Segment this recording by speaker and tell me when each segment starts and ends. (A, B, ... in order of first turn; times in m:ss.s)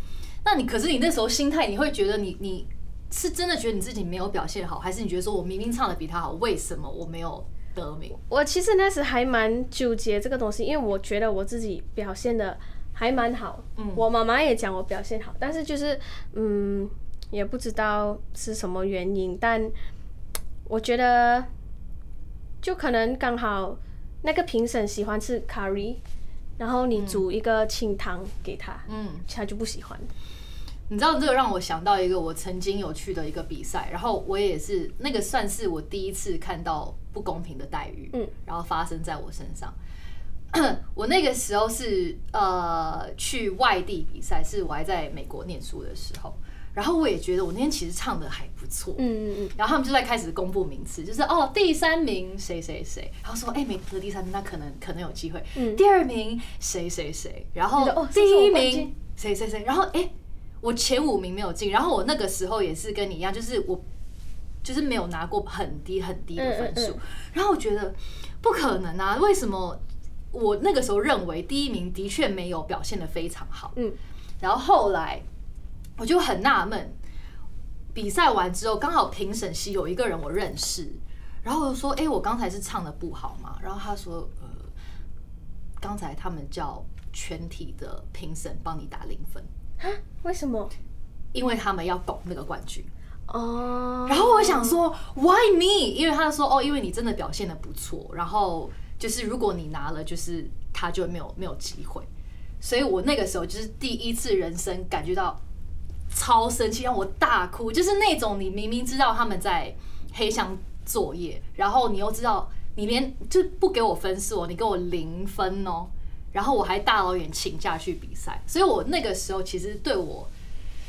0:00.4-0:08.1 A
0:08.2-0:19.7 B
0:13.8-0:14.0 A
0:20.6-0:21.5 B
0:22.6-0:26.0 B
0:26.6-0:30.1 B
0:26.9-0:27.2 A
0:28.9-0:29.2 A
0:30.9-0:39.7 A
0:40.5-1:03.8 A
0:49.0-0:49.5 B
0:55.6-0:55.8 B
0:57.8-0:58.9 B
1:04.6-1:09.8 A
1:06.4-1:07.0 B
1:10.3-1:13.7 A
1:14.4-1:15.2 A
1:16.0-1:17.0 A
1:17.9-1:24.7 A
1:25.8-1:29.5 A
1:29.8-1:30.7 B
1:31.3-1:32.9 A
1:33.3-1:34.8 B
1:34.1-1:42.1 A
1:42.6-1:45.4 A
1:46.1-2:00.3 A